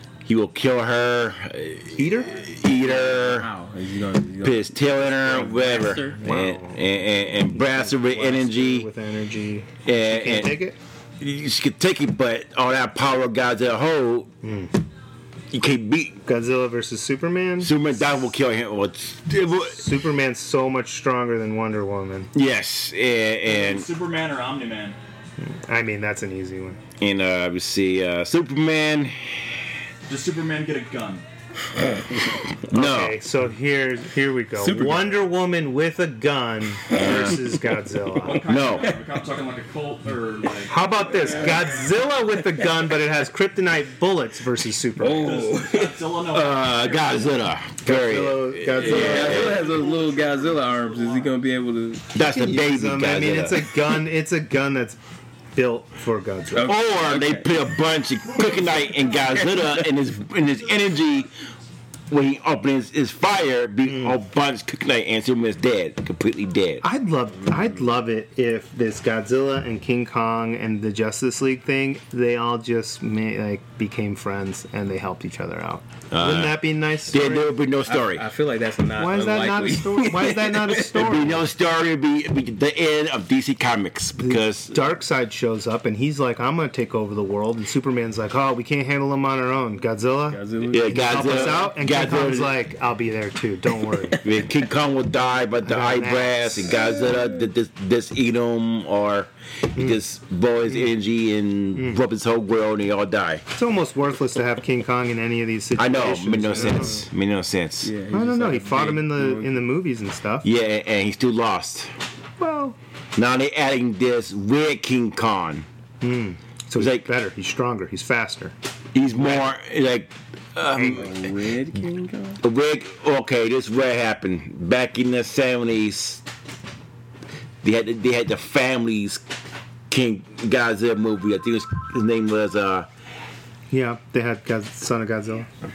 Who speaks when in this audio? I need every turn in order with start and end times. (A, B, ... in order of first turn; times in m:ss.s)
0:00.2-0:03.5 A
0:02.0-0:02.4 B
0:02.7-0:06.2 C
0:04.4-0:08.9 A
0:05.5-0:10.8 B
0:09.8-0:10.6 A
0:11.2-0:14.3 A
0:14.4-0:14.7 B
0:15.5-0:16.2 A
0:16.2-0:17.7 B
0:17.6-0:19.8 A
0:19.7-0:22.3 B
0:22.3-0:23.9 A
0:23.4-0:25.0 D
0:25.4-0:26.8 B
0:27.0-0:29.7 A
0:30.1-0:31.2 D
0:32.7-0:33.2 A
0:32.7-0:38.4 B
0:34.6-0:35.2 C
0:36.9-0:37.4 A
0:38.1-0:41.6 D
0:38.4-0:39.0 A
0:40.7-0:45.5 B
0:41.1-0:41.8 C
0:45.0-0:46.0 C
0:45.2-0:47.4 D
0:46.3-0:49.7 A
0:47.8-0:49.6 B
0:48.8-0:52.1 C
0:48.8-0:51.3 D
0:52.1-0:53.8 A
0:52.2-0:55.0 B
0:55.5-0:56.7 B
0:56.5-0:57.5 C
0:56.6-1:01.3 A
0:58.3-0:59.3 D
1:02.1-1:06.8 A
1:03.9-1:04.2 B
1:06.8-1:17.5 B
1:16.1-1:18.3 A
1:17.8-1:21.0 C
1:19.0-1:21.5 B
1:20.9-1:24.8 A
1:24.2-1:34.2 B
1:30.3-1:31.7 C
1:30.7-1:32.6 A
1:34.2-1:43.4 A
1:35.6-1:36.8 B
1:41.7-1:42.0 B
1:43.5-1:47.0 B
1:45.8-1:47.9 A
1:47.8-1:49.6 C
1:48.1-1:50.5 B
1:50.4-1:51.9 A
1:52.4-1:52.8 B
1:53.1-1:55.6 A
1:56.0-1:58.5 B
1:56.8-1:57.1 A
1:58.9-2:01.3 A
2:00.7-2:01.0 B
2:00.8-2:02.4 C
2:02.4-2:06.2 A
2:07.6-2:09.2 A
2:09.9-2:12.9 A
2:13.7-2:15.5 B